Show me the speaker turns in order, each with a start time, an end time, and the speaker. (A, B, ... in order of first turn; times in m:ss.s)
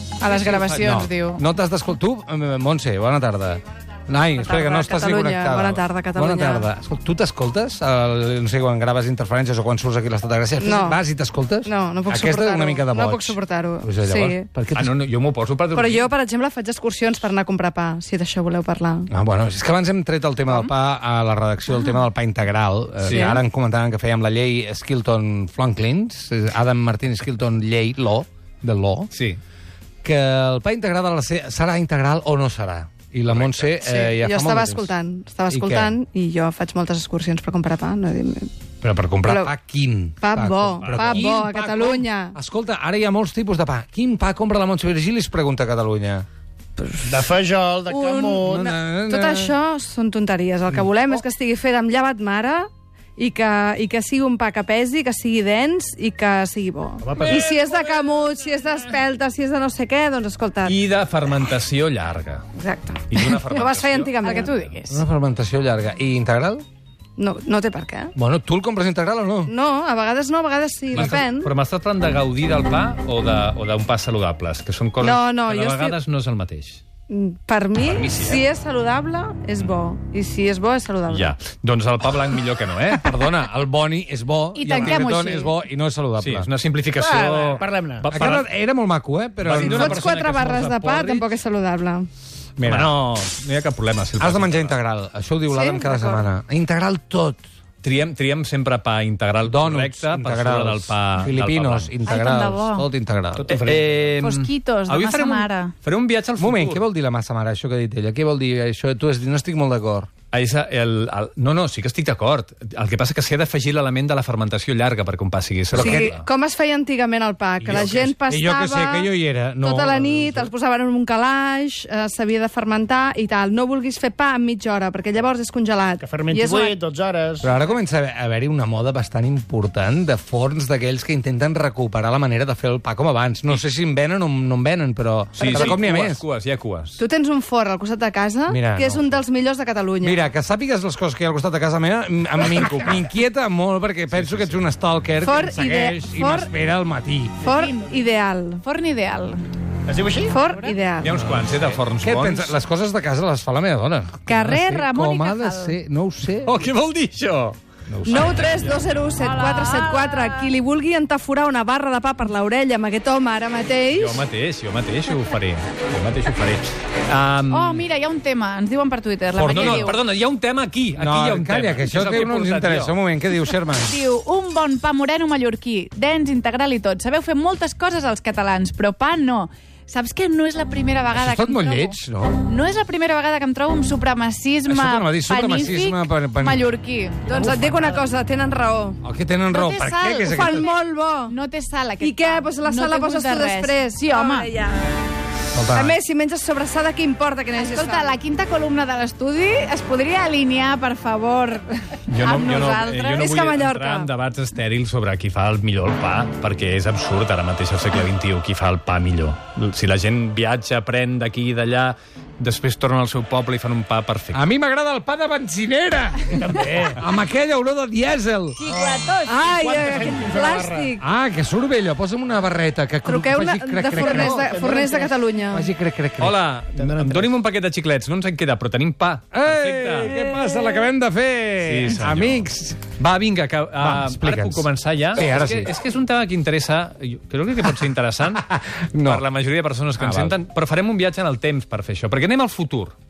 0:00.2-0:01.4 A
0:00.2-0:01.0 B
0:00.8-0:15.0 C
0:04.4-0:06.7 D
0:10.6-0:11.0 D
0:11.6-0:14.5 D
0:14.7-0:16.1 B
0:15.7-0:19.1 D
0:19.1-0:29.1 C
0:23.0-0:23.4 B
0:23.1-0:23.4 D
0:29.1-0:29.4 B
0:30.0-0:34.9 C
0:33.3-0:33.7 B
0:33.8-0:38.5 D
0:35.5-0:36.0 C
0:38.8-0:46.3 C
0:39.2-0:39.5 D
0:40.2-0:42.4 D
0:40.8-0:41.3 B
0:46.8-0:47.1 D
0:47.0-0:48.8 E
0:47.9-0:48.5 D
0:48.3-0:49.5 C
0:49.1-1:00.8 D
0:57.0-0:57.5 E
1:00.6-1:02.5 B
1:02.6-1:04.5 D
1:03.1-1:04.8 B
1:04.2-1:05.0 A
1:04.9-1:06.6 C
1:07.2-1:08.1 D
1:08.2-1:09.5 C
1:09.5-1:11.5 D
1:10.9-1:16.8 B
1:15.0-1:16.0 D
1:17.1-1:21.4 D
1:17.8-1:18.4 B
1:21.1-1:23.3 B
1:22.9-1:26.5 C
1:24.5-1:25.6 A
1:24.7-1:25.0 E
1:26.2-1:28.5 B
1:27.0-1:28.2 E
1:28.1-1:30.1 C
1:29.4-1:31.2 B
1:29.6-1:32.1 D
1:32.6-1:32.9 C
1:32.6-1:34.8 B
1:34.2-1:37.4 C
1:35.5-1:36.3 D
1:37.8-1:42.0 B
1:39.4-1:43.8 C
1:42.0-1:42.9 A
1:43.4-1:44.0 E
1:43.5-1:46.8 B
1:44.2-1:45.7 A
1:46.4-1:50.1 C
1:50.3-1:56.3 B
1:55.7-1:56.1 C
1:55.7-2:06.8 D
1:57.6-2:00.5 C
1:57.7-1:58.1 E
2:06.0-2:07.5 E
2:07.4-2:16.2 C
2:15.4-2:17.0 B
2:15.5-2:15.7 D
2:17.0-2:20.3 D
2:18.5-2:19.2 C
2:20.0-2:27.4 C
2:22.4-2:23.0 B
2:24.1-2:24.6 B
2:25.2-2:26.5 D
2:27.4-2:28.6 D
2:27.5-2:28.1 A
2:28.6-2:29.4 A
2:29.9-2:30.4 E
2:30.3-2:31.2 D
2:30.4-2:30.8 A
2:31.0-2:32.6 B
2:31.6-2:36.6 C
2:34.3-2:35.8 A
2:36.4-2:37.6 B
2:37.9-2:38.5 C
2:38.1-2:44.2 D
2:38.1-2:38.9 B
2:39.2-2:40.5 A
2:43.9-2:47.9 B
2:47.5-2:50.0 A
2:49.3-2:49.9 C
2:49.5-2:53.0 B
2:51.0-2:54.0 C
2:53.8-3:07.4 A
3:01.1-3:02.4 C
3:04.7-3:06.7 C
3:07.3-3:08.1 E
3:07.3-3:09.0 D
3:09.0-3:10.7 C
3:09.5-3:10.7 A
3:10.2-3:11.4 D
3:11.2-3:14.5 A
3:12.0-3:15.0 D
3:15.5-3:16.0 C
3:15.7-3:18.2 D
3:17.6-3:23.2 A
3:22.1-3:34.4 B
3:23.2-3:24.1 D
3:34.3-3:38.6 C
3:36.3-3:37.0 E
3:38.6-3:40.2 A
3:39.2-3:41.0 D
3:39.5-3:40.9 E
3:41.0-3:44.5 C
3:43.0-3:45.7 D
3:43.9-3:45.2 E
3:45.5-3:46.4 C
3:46.2-3:50.2 B
3:46.7-3:47.4 E
3:49.3-3:52.9 C
3:51.6-3:58.5 B
3:53.8-3:55.7 C
3:58.4-3:59.2 C
3:59.0-4:03.0 B
4:00.0-4:00.4 C